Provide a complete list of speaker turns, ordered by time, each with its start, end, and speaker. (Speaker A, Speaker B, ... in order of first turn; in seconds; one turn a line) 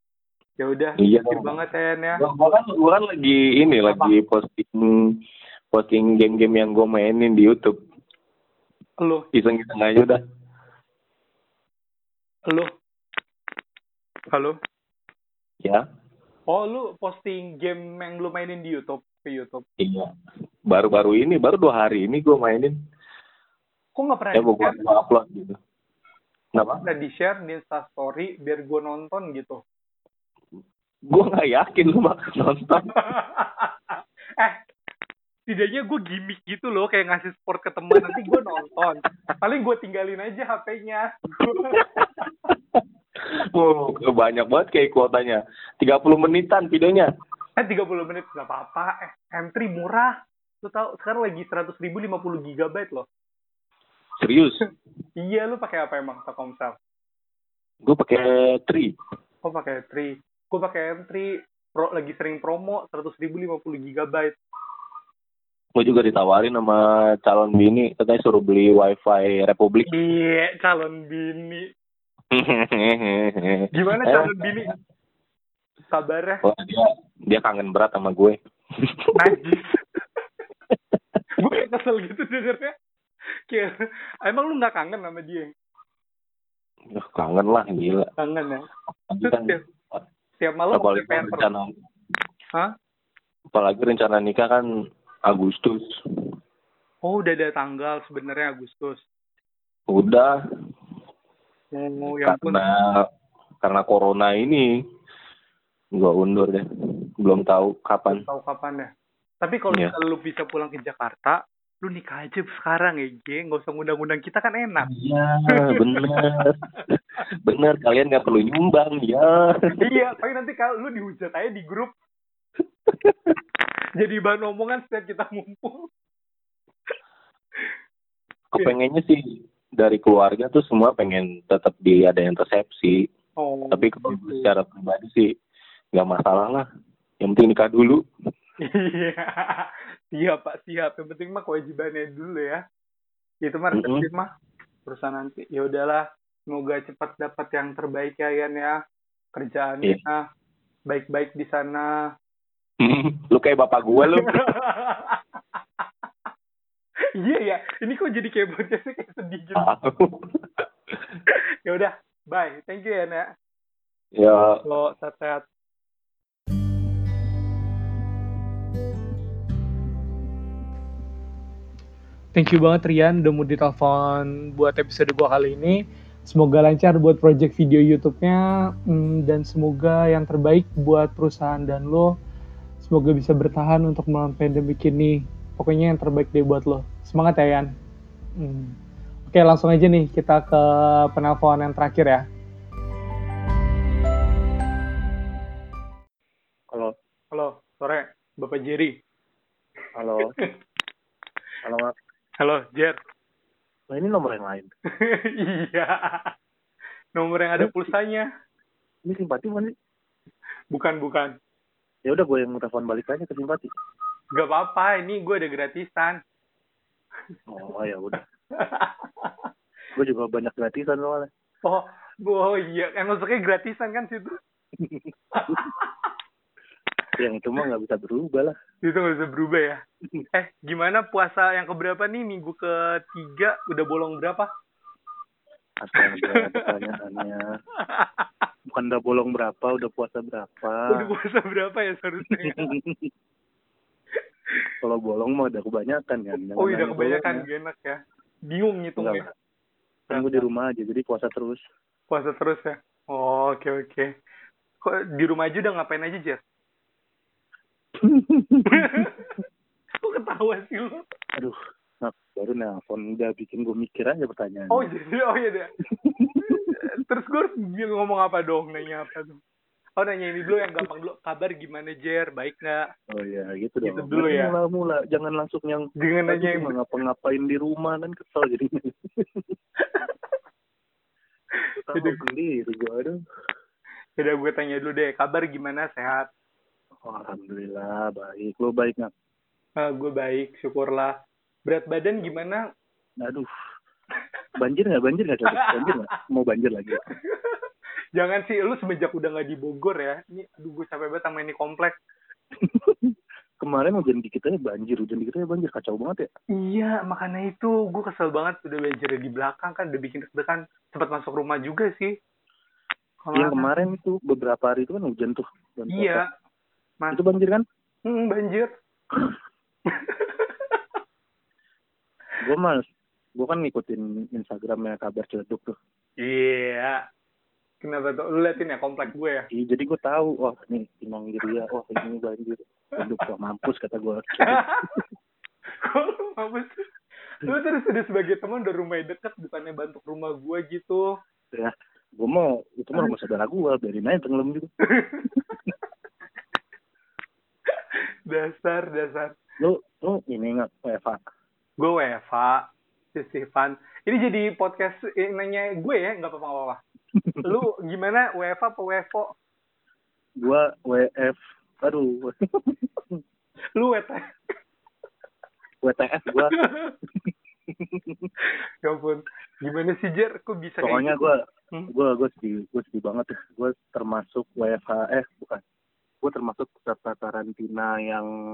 Speaker A: 0.6-2.2
Speaker B: 1.0-1.6
Speaker B: 2.1-5.2
Speaker A: 3.9-4.1
Speaker B: 5.7-7.8
Speaker A: 9.0-9.3
Speaker B: 9.3-10.2
Speaker A: 14.3-14.6
Speaker A: 16.5-19.6
Speaker B: 19.8-20.1
Speaker B: 20.7-22.8
Speaker A: 24.0-24.8
Speaker B: 24.3-25.6
Speaker B: 26.6-26.9
Speaker A: 26.8-29.6
Speaker B: 31.1-33.0
Speaker A: 33.0-34.6
Speaker A: 35.5-41.9
Speaker B: 37.9-38.2
Speaker B: 41.7-47.1
Speaker A: 47.6-53.1
Speaker B: 54.2-54.7
Speaker A: 55.2-56.8
Speaker B: 57.8-59.0
Speaker A: 59.4-64.4
Speaker B: 65.8-70.0
Speaker A: 69.9-71.7
Speaker B: 72.3-74.7
Speaker A: 73.7-74.7
Speaker A: 75.9-76.4
Speaker B: 76.4-79.3
Speaker A: 79.2-79.8
Speaker A: 81.4-82.7
Speaker A: 83.5-85.5
Speaker B: 86.9-88.1
Speaker A: 88.2-88.7
Speaker B: 89.1-90.0
Speaker A: 89.2-89.6
Speaker A: 90.4-91.5
Speaker B: 90.7-91.7
Speaker B: 93.5-94.7
Speaker B: 95.3-95.9
Speaker A: 97.0-99.0
Speaker B: 99.9-100.4
Speaker A: 101.7-102.6
Speaker B: 102.0-103.1
Speaker B: 103.6-104.7
Speaker B: 106.0-106.7
Speaker B: 107.2-108.2
Speaker A: 108.1-108.9
Speaker A: 109.4-114.9
Speaker B: 114.8-119.9
Speaker A: 115.5-116.3
Speaker A: 119.8-121.9
Speaker B: 123.0-123.3
Speaker A: 124.0-125.9
Speaker B: 128.5-133.1
Speaker A: 133.4-134.5
Speaker B: 133.7-135.3
Speaker B: 135.9-136.7
Speaker B: 137.2-138.0
Speaker A: 138.6-142.6
Speaker A: 143.4-144.3
Speaker B: 143.7-144.1
Speaker A: 144.9-148.8
Speaker A: 149.3-150.2
Speaker A: 150.9-152.0
Speaker B: 152.8-154.5
Speaker A: 153.9-155.2
Speaker A: 157.2-159.7
Speaker B: 159.6-160.7
Speaker A: 161.3-163.3
Speaker B: 164.2-164.6
Speaker A: 164.7-165.5
Speaker A: 172.3-182.2
Speaker A: 182.8-187.7
Speaker A: 188.4-188.8
Speaker A: 189.3-192.3
Speaker A: 197.3-199.0
Speaker C: 199.9-200.3
Speaker C: 201.6-201.9
Speaker A: 202.4-203.0
Speaker C: 203.9-204.7
Speaker A: 205.0-206.3
Speaker A: 207.2-208.3
Speaker C: 207.6-207.9
Speaker C: 209.1-209.7
Speaker A: 210.7-211.4
Speaker C: 212.1-213.7
Speaker A: 214.3-216.2
Speaker C: 217.5-218.2
Speaker A: 218.6-219.3
Speaker C: 219.9-221.3
Speaker A: 221.7-224.4
Speaker C: 224.8-225.7
Speaker A: 225.3-226.1
Speaker C: 227.2-228.6
Speaker A: 228.8-229.8
Speaker A: 230.3-234.5
Speaker C: 235.8-237.5
Speaker A: 235.9-236.8
Speaker A: 237.9-238.3
Speaker C: 238.7-241.1
Speaker A: 240.9-242.7
Speaker C: 242.3-243.1
Speaker C: 244.8-247.5
Speaker A: 246.6-249.3
Speaker C: 249.0-249.3
Speaker A: 250.1-250.5
Speaker C: 250.1-251.6
Speaker A: 252.1-254.1
Speaker A: 254.8-256.4
Speaker C: 258.0-259.1
Speaker A: 258.7-259.3
Speaker A: 260.0-261.1
Speaker C: 261.4-264.9
Speaker A: 264.7-265.7
Speaker C: 265.9-266.8
Speaker A: 266.4-269.4
Speaker A: 270.0-272.9
Speaker C: 270.5-270.9
Speaker C: 273.1-279.5
Speaker A: 273.8-274.5
Speaker A: 276.0-276.8
Speaker A: 279.8-280.1
Speaker A: 281.6-282.2
Speaker C: 281.8-283.2
Speaker A: 284.2-286.3
Speaker C: 287.1-289.1
Speaker A: 289.8-291.1
Speaker A: 291.7-292.6
Speaker C: 293.2-293.5
Speaker C: 294.6-297.0
Speaker A: 295.5-296.0
Speaker A: 297.1-297.6
Speaker A: 298.2-302.0
Speaker C: 302.6-306.3
Speaker A: 306.6-312.1
Speaker A: 313.2-313.7
Speaker C: 313.3-316.2
Speaker A: 315.9-316.2
Speaker C: 317.1-317.6
Speaker A: 318.1-318.7
Speaker A: 319.9-320.8
Speaker C: 322.4-322.9
Speaker C: 323.4-325.8
Speaker A: 326.2-327.1
Speaker A: 327.8-329.5
Speaker C: 329.5-335.0
Speaker A: 334.4-335.0
Speaker A: 335.8-336.9
Speaker A: 337.4-341.1
Speaker C: 341.5-344.7
Speaker A: 345.0-345.4
Speaker A: 347.7-349.4
Speaker C: 349.6-351.2
Speaker A: 351.8-356.8
Speaker C: 357.2-357.6
Speaker A: 357.4-359.3
Speaker C: 360.4-363.2
Speaker A: 363.8-364.3
Speaker C: 365.8-366.6
Speaker A: 366.4-367.0
Speaker C: 367.7-368.3
Speaker A: 368.8-371.9
Speaker C: 370.8-375.6
Speaker C: 376.2-378.3